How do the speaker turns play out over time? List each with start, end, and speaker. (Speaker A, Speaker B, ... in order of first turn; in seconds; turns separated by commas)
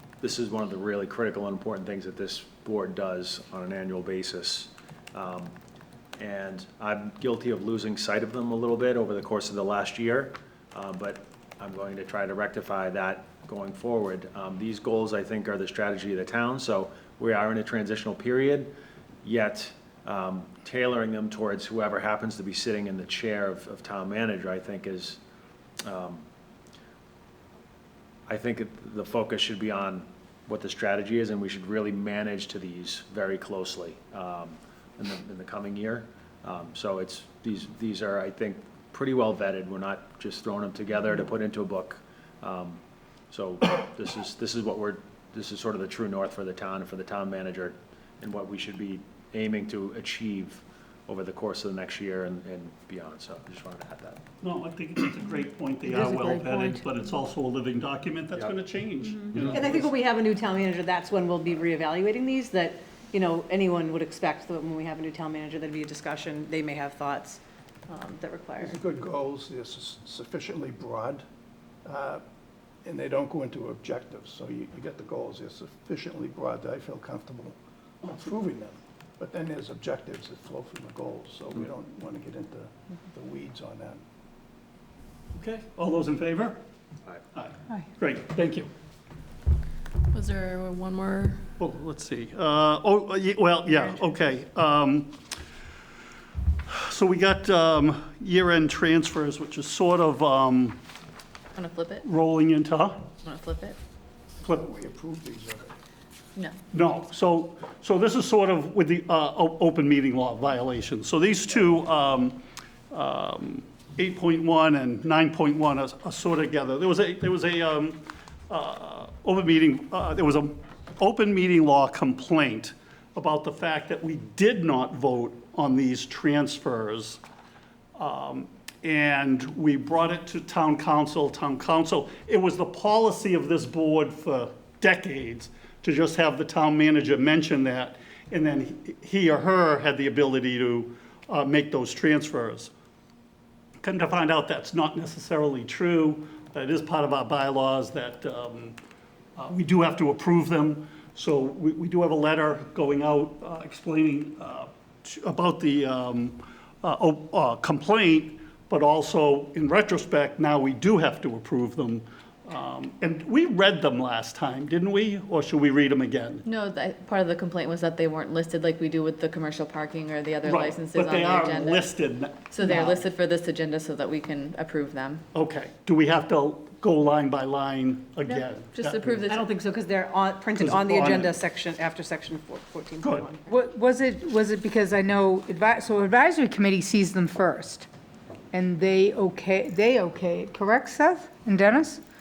Speaker A: 0.2-5.5, Speaker A: 6.2-18.7, Speaker A: 19.2-25.2, Speaker A: 25.9-26.2, Speaker A: 28.3-54.2, Speaker B: 54.4-59.9, Speaker C: 55.9-56.8, Speaker D: 59.5-68.8, Speaker E: 68.6-71.2, Speaker E: 71.8-72.2, Speaker E: 72.8-84.0, Speaker B: 85.3-86.6, Speaker B: 87.3-88.7, Speaker F: 90.1-91.4, Speaker B: 91.6-95.2, Speaker B: 96.7-100.8, Speaker F: 101.5-102.0, Speaker B: 102.0-103.1, Speaker F: 103.2-103.8, Speaker E: 104.4-105.7, Speaker B: 106.7-112.4, Speaker B: 112.9-127.2, Speaker B: 128.0-142.7, Speaker B: 143.8-148.8, Speaker B: 149.4-166.4, Speaker F: 166.4-171.9, Speaker B: 170.4-173.0, Speaker F: 172.5-175.2, Speaker B: 175.3-179.3, Speaker F: 178.6-179.5, Speaker D: 179.3-183.4, Speaker B: 180.6-181.3, Speaker B: 183.0-183.3, Speaker C: 183.4-187.9, Speaker C: 188.5-192.0